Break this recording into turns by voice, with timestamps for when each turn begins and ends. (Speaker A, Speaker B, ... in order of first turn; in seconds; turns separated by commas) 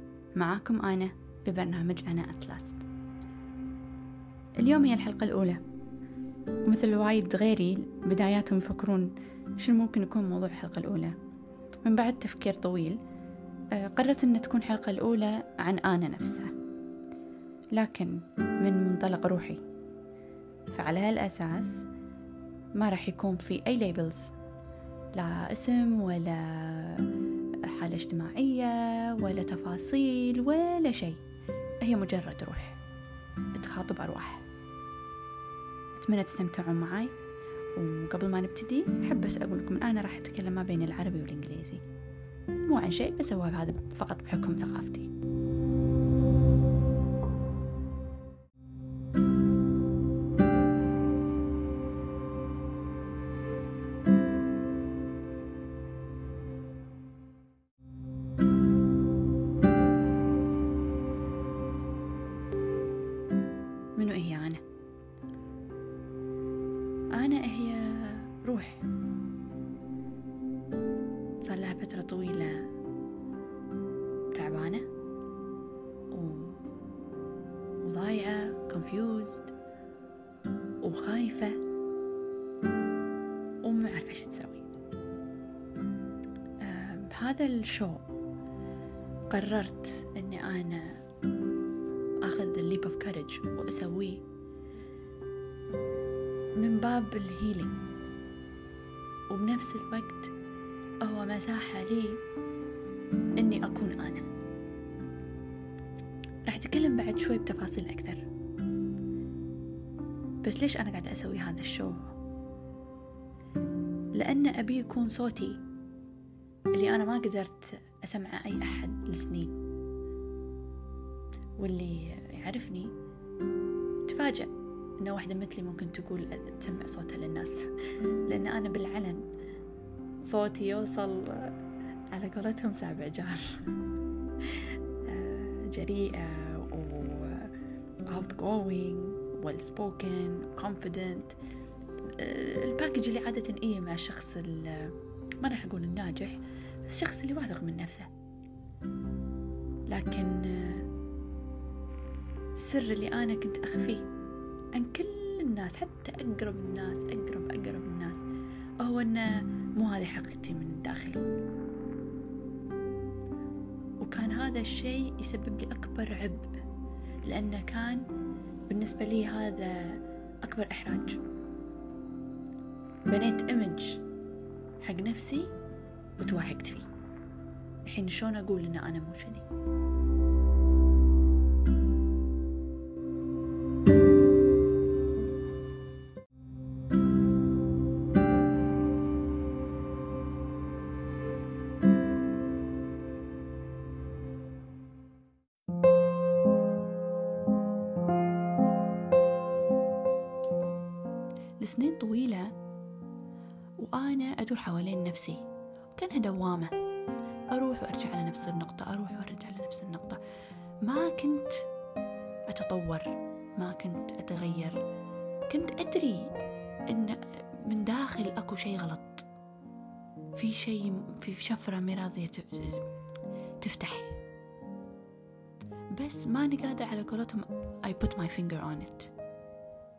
Speaker A: 0.3-2.8, Speaker A: 4.6-5.6, Speaker A: 6.6-11.2, Speaker A: 11.8-13.0, Speaker A: 13.8-16.5, Speaker A: 17.8-19.6, Speaker A: 20.7-21.8, Speaker A: 22.8-24.3, Speaker A: 25.1-27.1, Speaker A: 27.6-31.2, Speaker A: 31.8-32.8, Speaker A: 33.5-34.4, Speaker A: 36.0-37.1, Speaker A: 37.7-41.8, Speaker A: 42.7-45.1, Speaker A: 64.0-64.6, Speaker A: 67.1-68.8, Speaker A: 71.4-72.6, Speaker A: 74.3-74.9, Speaker A: 76.1-76.6, Speaker A: 77.8-79.5, Speaker A: 80.8-81.6, Speaker A: 83.6-84.7, Speaker A: 86.6-88.1, Speaker A: 89.3-91.0, Speaker A: 92.2-94.2, Speaker A: 96.6-97.8, Speaker A: 99.3-100.3, Speaker A: 101.0-102.2, Speaker A: 103.4-104.2, Speaker A: 106.5-108.2, Speaker A: 110.4-112.1, Speaker A: 114.1-115.6, Speaker A: 116.7-119.6, Speaker A: 121.6-122.9, Speaker A: 124.1-127.7, Speaker A: 128.2-129.2, Speaker A: 130.2-131.5, Speaker A: 132.1-133.7, Speaker A: 134.4-137.5, Speaker A: 138.1-141.3, Speaker A: 142.0-148.1, Speaker A: 149.9-150.9, Speaker A: 152.5-154.0, Speaker A: 154.7-158.2, Speaker A: 158.8-161.2, Speaker A: 164.0-166.5, Speaker A: 167.2-168.0, Speaker A: 168.7-171.2, Speaker A: 173.1-174.0, Speaker A: 174.8-175.5, Speaker A: 176.2-176.9, Speaker A: 177.9-179.4, Speaker A: 201.6-202.5, Speaker A: 203.8-205.4, Speaker A: 205.9-206.7, Speaker A: 207.5-210.2, Speaker A: 210.8-211.6, Speaker A: 212.5-214.8, Speaker A: 215.5-216.3, Speaker A: 216.9-219.2, Speaker A: 220.3-222.9, Speaker A: 223.6-224.2, Speaker A: 225.9-229.1